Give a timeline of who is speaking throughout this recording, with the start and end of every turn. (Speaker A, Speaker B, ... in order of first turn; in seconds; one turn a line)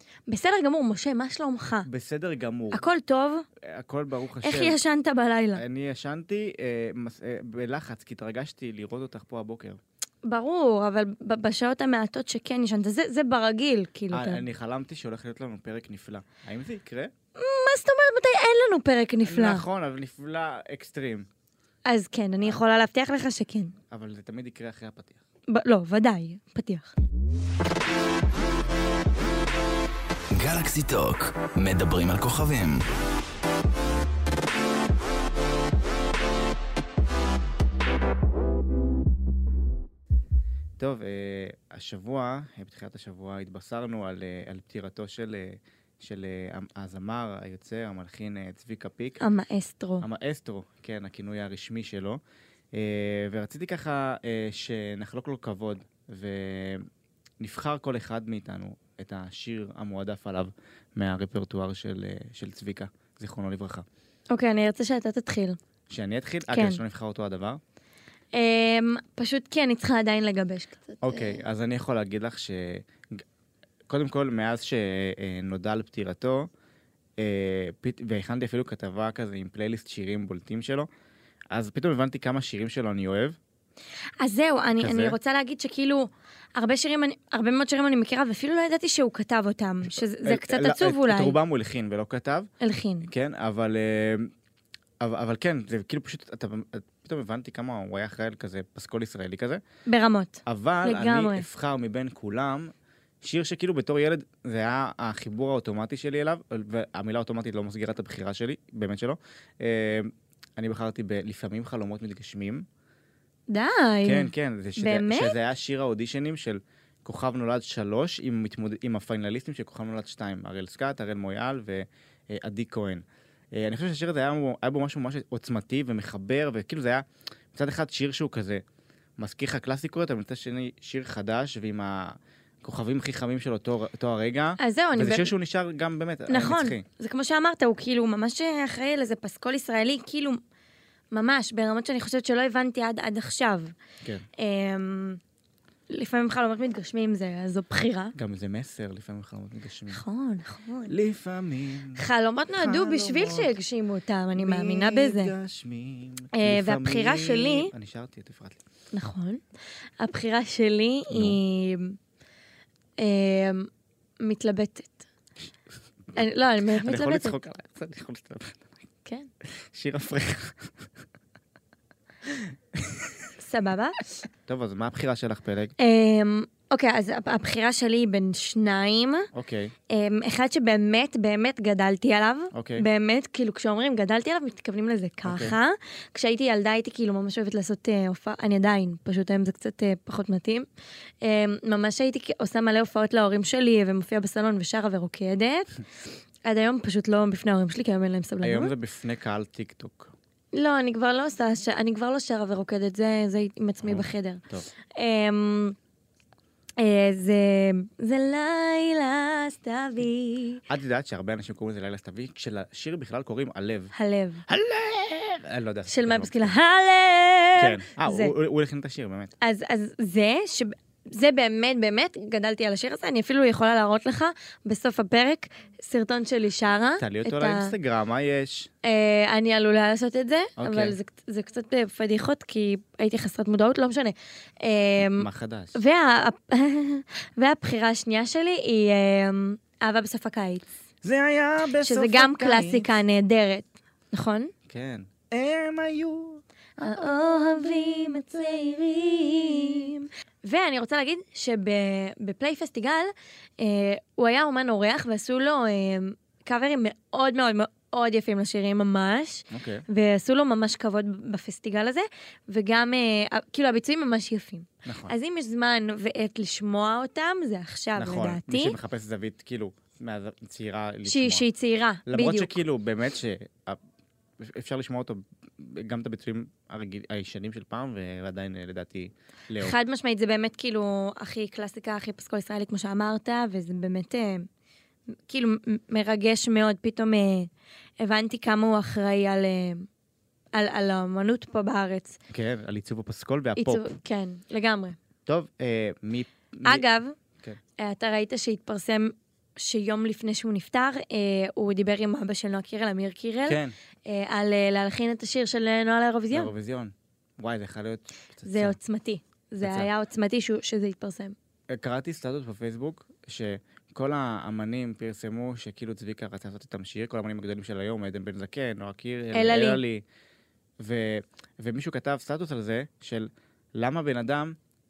Speaker A: 0.3-1.9
Speaker B: 1.9-2.8
Speaker A: 2.7-3.5
Speaker B: 3.6-4.8
Speaker A: 4.4-5.6
Speaker B: 5.6-9.8
Speaker A: 10.2-14.4
Speaker B: 14.1-17.1
Speaker A: 17.4-19.6
Speaker B: 19.2-21.3
Speaker A: 21.9-23.7
Speaker B: 23.9-25.2
Speaker A: 25.5-26.9
Speaker C: 30.3-32.8
Speaker B: 40.8-49.2
Speaker A: 49.2-50.0
Speaker B: 50.0-52.2
Speaker B: 52.7-56.9
Speaker B: 57.4-63.9
Speaker A: 64.3-65.6
Speaker B: 65.9-67.6
Speaker A: 66.5-66.8
Speaker A: 68.3-71.4
Speaker B: 71.0-73.2
Speaker B: 73.9-76.5
Speaker B: 77.2-80.9
Speaker B: 81.5-83.4
Speaker A: 84.2-91.4
Speaker B: 84.8-85.2
Speaker B: 89.9-92.5
Speaker A: 92.6-93.1
Speaker B: 93.0-94.3
Speaker B: 95.0-99.6
Speaker A: 99.9-101.5
Speaker B: 100.5-112.7
Speaker A: 113.5-115.3
Speaker B: 114.0-128.6
Speaker B: 129.2-136.8
Speaker A: 134.6-135.3
Speaker A: 136.3-140.4
Speaker A: 141.1-143.7
Speaker A: 144.4-145.2
Speaker A: 145.9-148.1
Speaker B: 148.2-150.0
Speaker A: 149.9-150.9
Speaker B: 150.9-152.0
Speaker A: 152.0-155.3
Speaker B: 152.6-153.5
Speaker B: 154.4-158.6
Speaker A: 156.3-157.7
Speaker A: 158.9-159.4
Speaker A: 160.0-162.0
Speaker B: 161.1-161.4
Speaker A: 163.0-163.7
Speaker A: 164.2-165.0
Speaker A: 166.2-167.4
Speaker B: 166.8-168.7
Speaker B: 169.7-170.7
Speaker B: 172.3-173.1
Speaker A: 173.4-174.0
Speaker B: 174.5-175.8
Speaker A: 175.8-179.3
Speaker B: 179.3-179.7
Speaker A: 179.9-190.7
Speaker B: 182.5-182.9
Speaker B: 185.2-185.6
Speaker A: 191.2-195.8
Speaker A: 196.4-198.7
Speaker B: 198.4-200.1
Speaker A: 200.5-204.4
Speaker B: 203.8-204.7
Speaker A: 204.9-205.8
Speaker A: 206.8-210.6
Speaker B: 210.7-213.9
Speaker A: 213.9-214.4
Speaker B: 214.5-216.5
Speaker A: 215.9-218.3
Speaker B: 217.6-219.3
Speaker A: 219.4-227.7
Speaker B: 227.0-228.7
Speaker A: 228.8-240.7
Speaker B: 230.6-231.0
Speaker B: 235.0-235.8
Speaker B: 241.0-242.9
Speaker A: 241.8-244.5
Speaker B: 244.7-247.1
Speaker A: 246.8-268.8
Speaker B: 259.5-259.8
Speaker B: 264.9-265.1
Speaker B: 268.0-271.4
Speaker A: 271.1-272.6
Speaker B: 272.1-273.8
Speaker B: 274.4-279.8
Speaker A: 279.6-284.5
Speaker A: 285.3-287.5
Speaker A: 288.0-289.9
Speaker A: 290.5-292.2
Speaker B: 292.3-293.9
Speaker A: 293.6-295.0
Speaker B: 295.3-296.9
Speaker A: 296.6-297.1
Speaker A: 297.8-306.5
Speaker B: 303.5-303.7
Speaker B: 306.3-308.8
Speaker A: 308.5-311.4
Speaker B: 309.6-309.9
Speaker B: 311.7-320.0
Speaker A: 319.3-319.8
Speaker B: 320.8-324.6